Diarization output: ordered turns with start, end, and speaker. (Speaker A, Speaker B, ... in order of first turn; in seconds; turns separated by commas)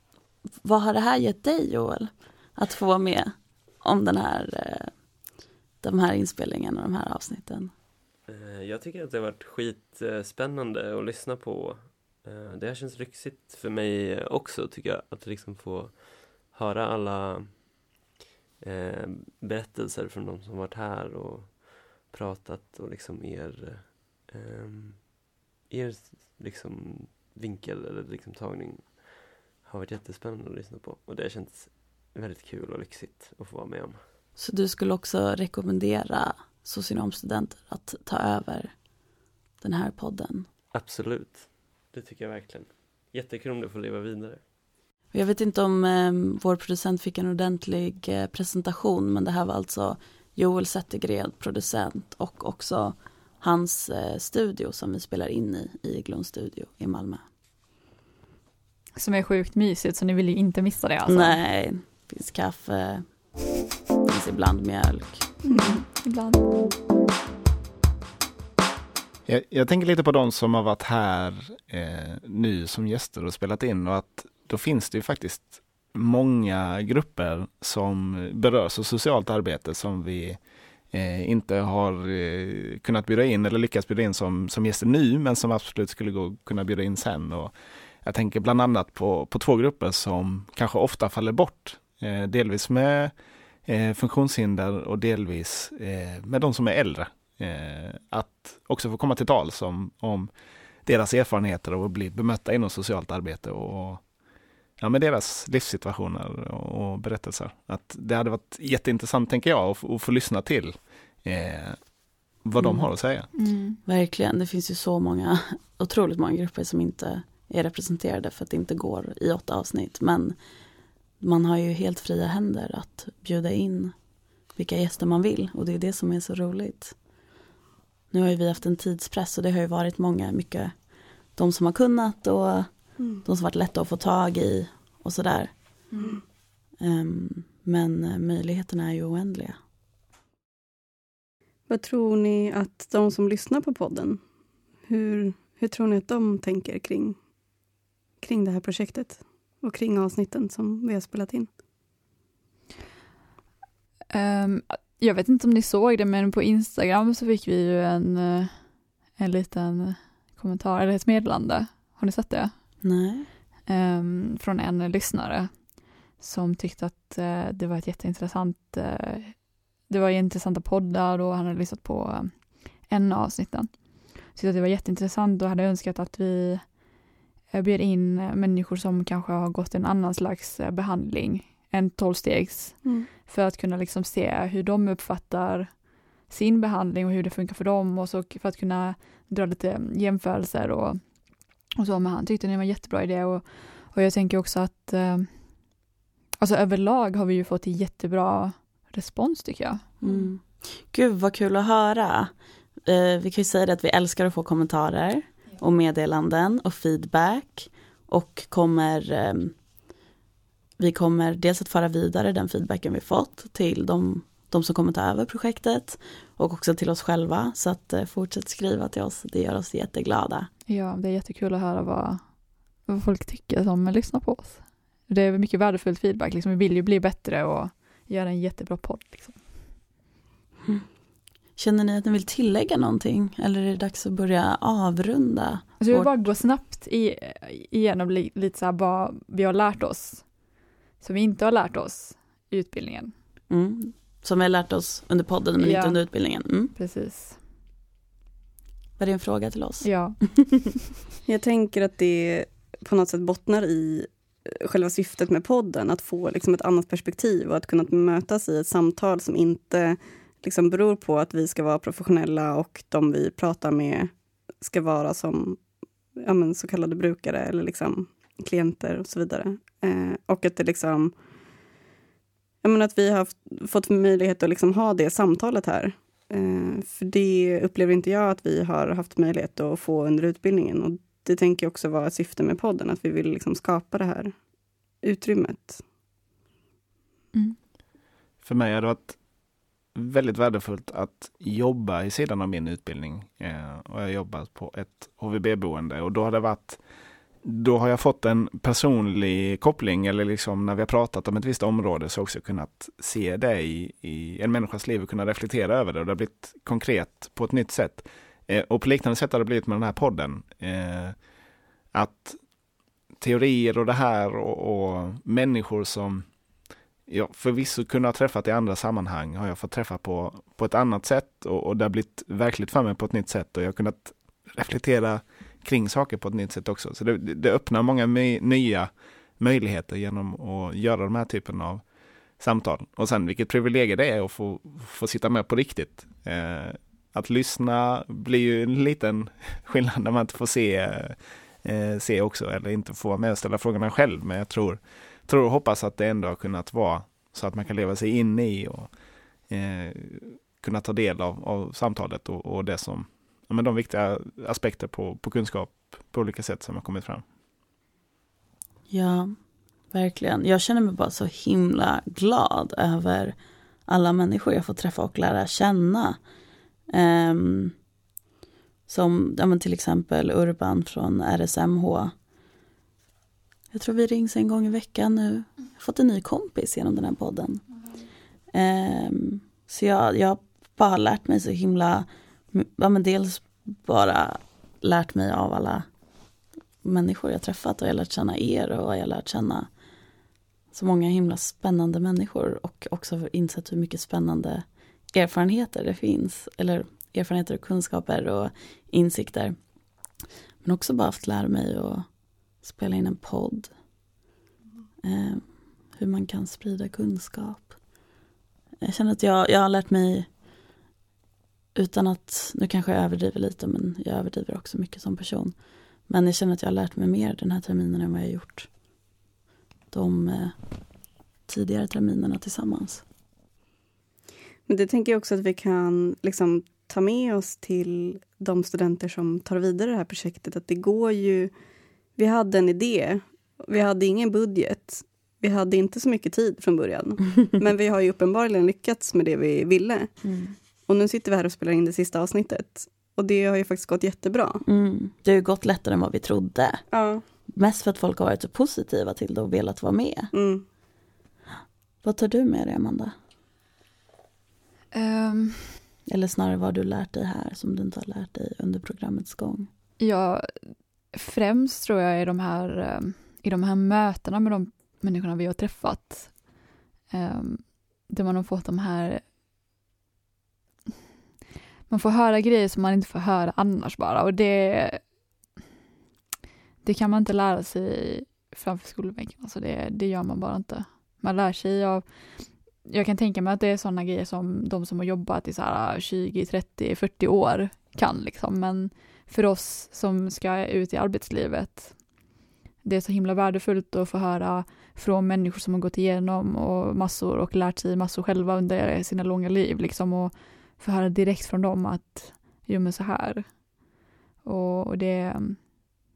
Speaker A: 0.6-5.0, Speaker A: 5.8-7.7, Speaker B: 8.3-17.7, Speaker B: 18.6-34.0, Speaker A: 34.4-38.8, Speaker A: 39.6-40.5, Speaker B: 40.7-44.4, Speaker A: 45.1-57.2, Speaker C: 59.0-61.4, Speaker A: 61.1-63.5, Speaker A: 64.0-65.3, Speaker C: 65.5-66.5, Speaker D: 69.3-80.4, Speaker D: 80.9-93.1, Speaker D: 93.7-100.3, Speaker D: 100.8-104.0, Speaker D: 104.8-113.3, Speaker A: 112.6-112.9, Speaker C: 113.3-113.8, Speaker A: 113.8-120.4, Speaker A: 121.2-124.0, Speaker A: 124.5-127.0, Speaker A: 128.1-135.8, Speaker E: 133.0-133.2, Speaker C: 135.9-136.2, Speaker A: 136.8-139.6, Speaker E: 141.7-144.2, Speaker E: 144.8-147.2, Speaker E: 148.2-151.5, Speaker C: 154.1-162.8, Speaker A: 162.8-163.3, Speaker C: 163.7-176.9, Speaker C: 177.5-191.2, Speaker E: 182.8-183.1, Speaker C: 191.8-195.8, Speaker C: 196.4-200.0, Speaker A: 200.0-202.3, Speaker A: 202.8-209.6, Speaker A: 210.8-220.5, Speaker C: 220.7-229.6, Speaker A: 231.6-236.2, Speaker C: 235.8-243.1, Speaker A: 243.5-246.7, Speaker C: 245.6-246.1, Speaker C: 246.7-247.4, Speaker A: 249.0-250.6, Speaker C: 249.8-250.6, Speaker E: 251.3-265.6, Speaker E: 266.2-271.1, Speaker E: 272.6-284.4, Speaker E: 285.0-285.8, Speaker D: 288.4-289.2, Speaker D: 289.9-296.8, Speaker D: 297.4-311.2, Speaker D: 311.9-312.5, Speaker D: 313.2-316.3, Speaker D: 317.1-331.9, Speaker D: 332.4-348.9, Speaker D: 349.5-357.2, Speaker A: 358.9-359.3, Speaker A: 359.9-363.4, Speaker A: 363.9-366.2, Speaker A: 366.9-367.8, Speaker A: 368.9-372.1, Speaker A: 373.7-377.6, Speaker A: 378.5-385.9, Speaker A: 386.8-389.7, Speaker A: 390.7-399.6, Speaker A: 400.6-402.1, Speaker A: 402.6-403.7, Speaker A: 405.0-407.8, Speaker A: 408.8-410.3, Speaker A: 411.8-415.6, Speaker A: 416.1-418.7, Speaker A: 419.9-420.6, Speaker A: 421.5-423.0, Speaker E: 424.7-431.5, Speaker E: 432.2-440.1, Speaker A: 440.2-440.6, Speaker E: 440.9-444.6, Speaker A: 444.7-446.9, Speaker E: 446.9-447.2, Speaker A: 447.5-450.3, Speaker E: 450.3-450.6, Speaker A: 452.0-453.1, Speaker C: 454.9-455.8, Speaker A: 456.1-459.7, Speaker C: 460.0-466.5, Speaker C: 467.1-469.2, Speaker C: 471.9-475.1, Speaker C: 476.8-492.1, Speaker C: 492.8-503.8, Speaker C: 504.4-505.8